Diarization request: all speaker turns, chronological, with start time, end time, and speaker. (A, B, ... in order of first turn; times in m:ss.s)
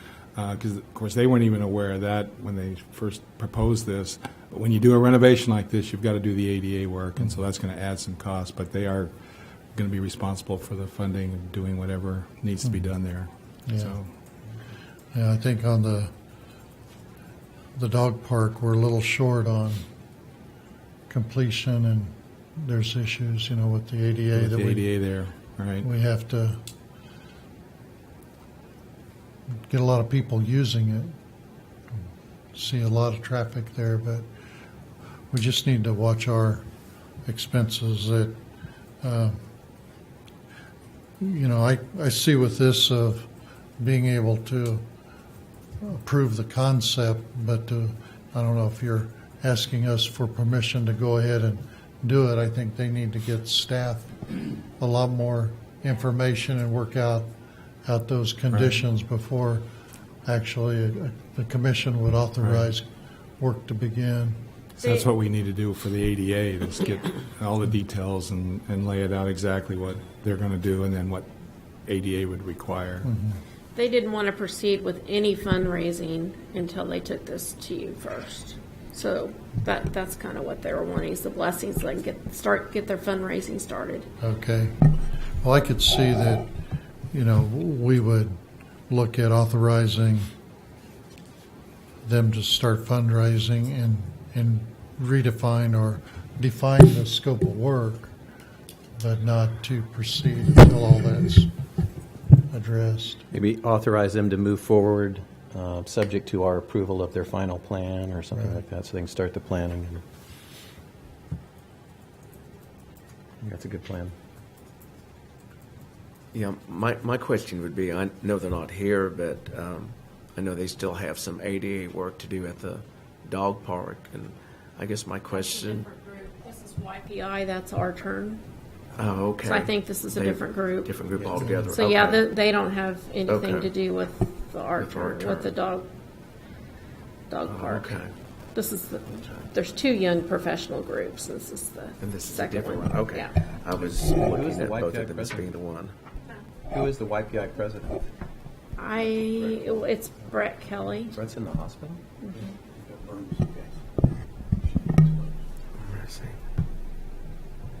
0:00.3-0:09.1 A
0:09.7-0:14.1 A
0:13.7-0:13.9 B
0:15.1-0:16.1 B
0:17.8-0:19.8 B
0:21.1-0:24.8 B
0:24.3-0:25.9 A
0:25.8-0:26.6 B
0:29.6-0:31.2 B
0:32.5-0:34.2 B
0:35.3-0:36.6 B
0:37.2-0:38.4 B
0:39.0-0:39.4 B
0:41.2-0:44.9 B
0:45.8-0:54.2 B
0:54.8-0:57.3 B
0:57.8-0:59.6 B
0:58.5-0:58.8 A
1:00.2-1:02.9 B
1:02.4-1:02.7 A
1:03.4-1:04.4 B
1:04.8-1:11.3 A
1:11.8-1:13.1 A
1:13.0-1:13.4 B
1:13.7-1:24.1 C
1:24.2-1:24.8 B
1:25.4-1:26.5 B
1:27.1-1:28.4 B
1:28.9-1:30.3 B
1:32.0-1:38.1 B
1:39.0-1:41.5 B
1:42.5-1:43.2 B
1:43.3-1:50.0 D
1:53.4-1:54.1 D
1:56.3-2:05.9 E
2:05.3-2:08.4 C
2:08.9-2:12.2 E
2:09.4-2:10.9 C
2:11.4-2:11.7 B
2:11.7-2:15.9 C
2:13.3-2:13.7 E
2:14.8-2:15.5 E
2:17.3-2:18.0 C
2:17.5-2:18.1 E
2:18.5-2:23.3 C
2:22.0-2:25.9 E
2:24.1-2:25.5 D
2:26.7-2:28.0 D
2:28.8-2:31.1 C
2:31.1-2:33.7 D
2:35.8-2:36.4 E